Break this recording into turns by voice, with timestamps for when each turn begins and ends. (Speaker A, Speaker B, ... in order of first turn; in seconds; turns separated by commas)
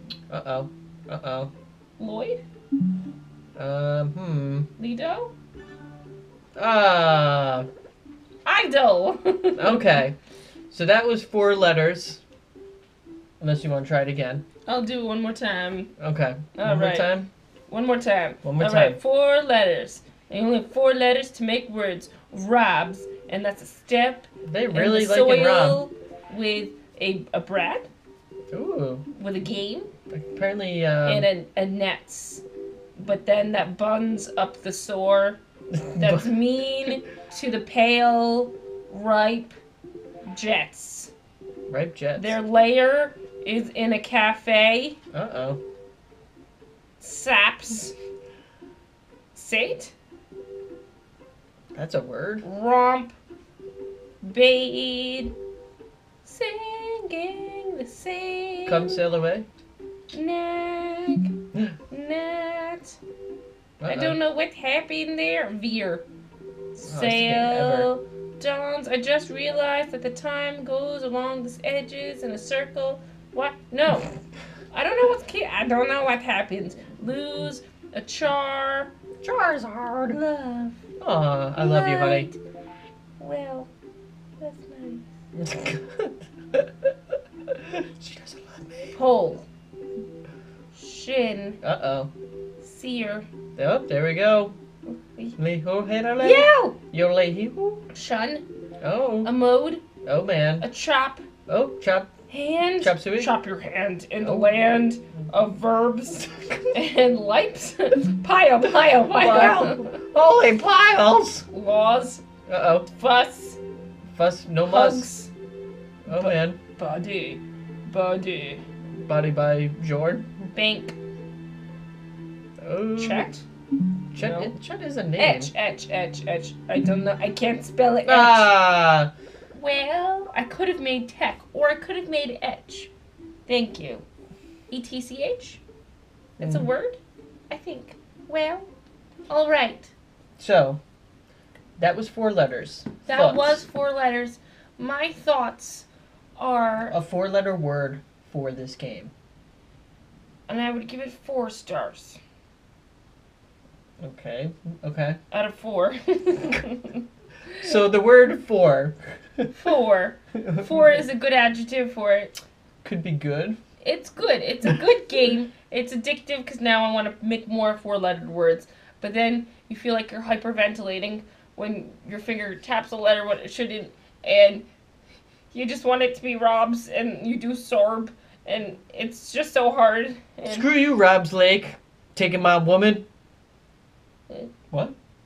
Speaker A: 0.3-1.5, Speaker B: 2.0-2.4, Speaker A: 3.5-4.7, Speaker B: 4.8-5.3, Speaker A: 6.5-7.7, Speaker B: 8.4-9.9, Speaker A: 9.6-10.2, Speaker A: 10.7-12.2, Speaker A: 13.4-14.4, Speaker B: 14.7-15.9, Speaker A: 16.0-17.3, Speaker B: 16.5-17.1, Speaker B: 17.7-27.9, Speaker A: 18.4-19.0, Speaker A: 24.4-25.8, Speaker A: 28.5-29.1, Speaker B: 29.1-29.9, Speaker A: 30.1-31.3, Speaker B: 31.0-32.4, Speaker B: 33.0-35.4, Speaker A: 35.7-36.3, Speaker B: 36.0-39.5, Speaker B: 40.3-41.1, Speaker A: 41.7-42.4, Speaker B: 42.2-45.0, Speaker A: 45.1-45.6, Speaker B: 47.0-47.9, Speaker B: 49.3-49.9, Speaker A: 51.7-52.5, Speaker B: 52.4-53.1, Speaker B: 54.2-55.3, Speaker B: 56.2-59.0, Speaker A: 58.6-59.5, Speaker B: 60.1-61.3, Speaker B: 61.9-63.0, Speaker A: 63.8-64.2, Speaker B: 63.9-66.1, Speaker B: 66.7-74.1, Speaker A: 66.8-67.9, Speaker B: 74.7-78.9, Speaker A: 79.2-80.2, Speaker B: 80.1-80.7, Speaker A: 81.0-82.3, Speaker B: 81.5-82.4, Speaker B: 83.2-83.7, Speaker B: 84.4-85.1, Speaker A: 85.3-86.9, Speaker A: 87.5-89.0, Speaker B: 88.9-89.5, Speaker B: 90.7-91.6, Speaker A: 91.6-92.1, Speaker B: 92.6-93.3, Speaker A: 93.5-94.6, Speaker B: 94.9-95.4, Speaker A: 95.4-97.8, Speaker B: 96.2-96.8, Speaker B: 97.9-98.5, Speaker A: 98.8-99.3, Speaker B: 99.2-99.8, Speaker A: 100.0-100.7, Speaker B: 100.6-101.2, Speaker A: 101.5-102.1, Speaker B: 102.3-110.0, Speaker A: 102.8-103.3, Speaker A: 104.2-104.7, Speaker A: 109.0-111.5, Speaker B: 111.5-112.2, Speaker A: 112.5-112.9, Speaker B: 112.9-113.6, Speaker A: 114.1-115.1, Speaker B: 114.6-115.3, Speaker A: 116.0-116.6, Speaker B: 116.1-118.6, Speaker A: 119.0-120.3, Speaker B: 120.5-121.0, Speaker A: 122.6-123.3, Speaker B: 123.0-123.4, Speaker A: 124.1-125.5, Speaker B: 124.2-124.5, Speaker B: 125.2-128.5, Speaker A: 128.0-129.1, Speaker B: 129.5-132.9, Speaker B: 133.5-134.0, Speaker B: 134.7-135.6, Speaker B: 136.4-138.7, Speaker A: 136.4-136.7, Speaker B: 139.3-139.9, Speaker A: 140.4-140.8, Speaker A: 141.8-143.7, Speaker B: 143.1-147.0, Speaker A: 146.9-149.1, Speaker B: 150.5-152.2, Speaker A: 154.0-155.2, Speaker B: 155.3-157.7, Speaker A: 157.6-159.5, Speaker B: 159.5-162.4, Speaker A: 160.4-160.9, Speaker A: 162.8-163.6, Speaker B: 163.8-174.7, Speaker B: 175.5-180.7, Speaker A: 180.4-183.1